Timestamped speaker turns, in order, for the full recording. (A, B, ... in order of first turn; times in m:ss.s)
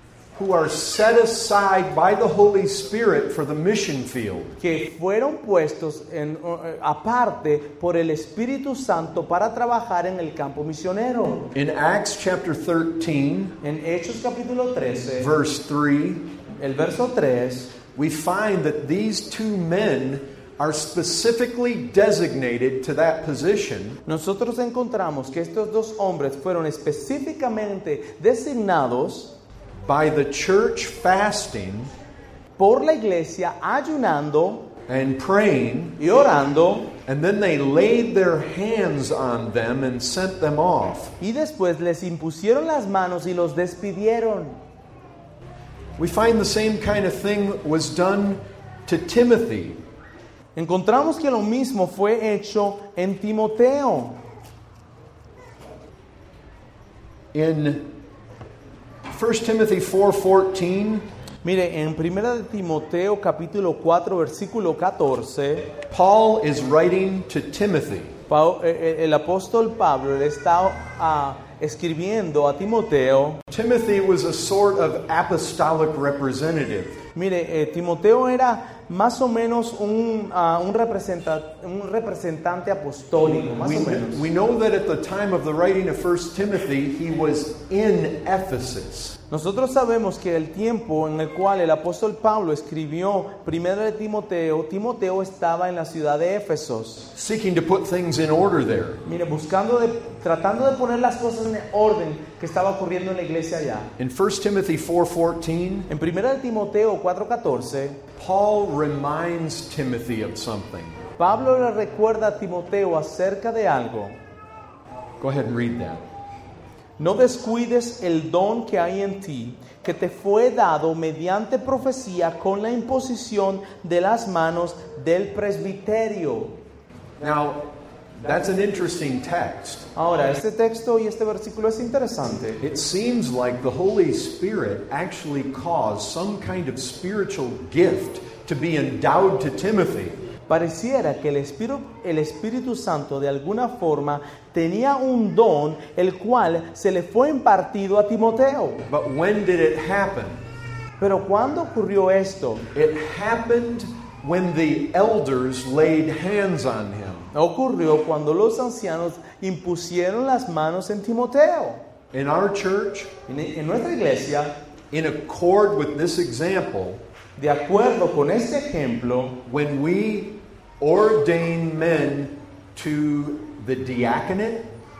0:00.4-0:04.6 A
0:04.6-0:11.5 B
0:11.5-0:13.5 A
0:13.6-0:15.3 B
0:15.2-0:16.2 A
0:16.6-0:17.7 B
0:18.0-0:24.0 A
0:24.0-0:29.3 B
0:29.9-0:31.9 A
0:32.6-0:34.7 B
0:34.9-0:36.0 A
0:36.0-0:36.9 B
0:37.0-0:41.1 A
0:41.2-0:44.6 B
0:46.0-0:49.8 A
0:50.5-0:54.2 B
0:57.3-0:57.8 A
0:59.1-1:01.0 A
1:01.4-1:05.7 B
1:05.9-1:08.1 A
1:08.3-1:13.4 B
1:13.5-1:17.0 A
1:17.1-1:24.2 B
1:23.6-1:29.2 A
1:29.3-1:37.1 B
1:37.1-1:39.0 A
1:39.0-1:43.9 B
1:44.0-1:45.9 A
1:45.9-1:48.0 B
1:48.2-1:51.0 A
1:51.2-1:54.2 B
1:55.2-1:56.0 A
1:57.0-2:06.5 B
2:07.2-2:07.6 A
2:08.2-2:09.9 A
2:09.9-2:12.6 B
2:12.6-2:20.2 A
2:20.5-2:28.8 B
2:28.9-2:30.4 A
2:31.0-2:32.6 B
2:32.7-2:37.3 A
2:37.3-2:41.8 B
2:42.1-2:43.1 A
2:43.3-2:44.5 B
2:44.9-2:47.0 A
2:47.4-2:49.4 B
2:49.4-2:54.7 A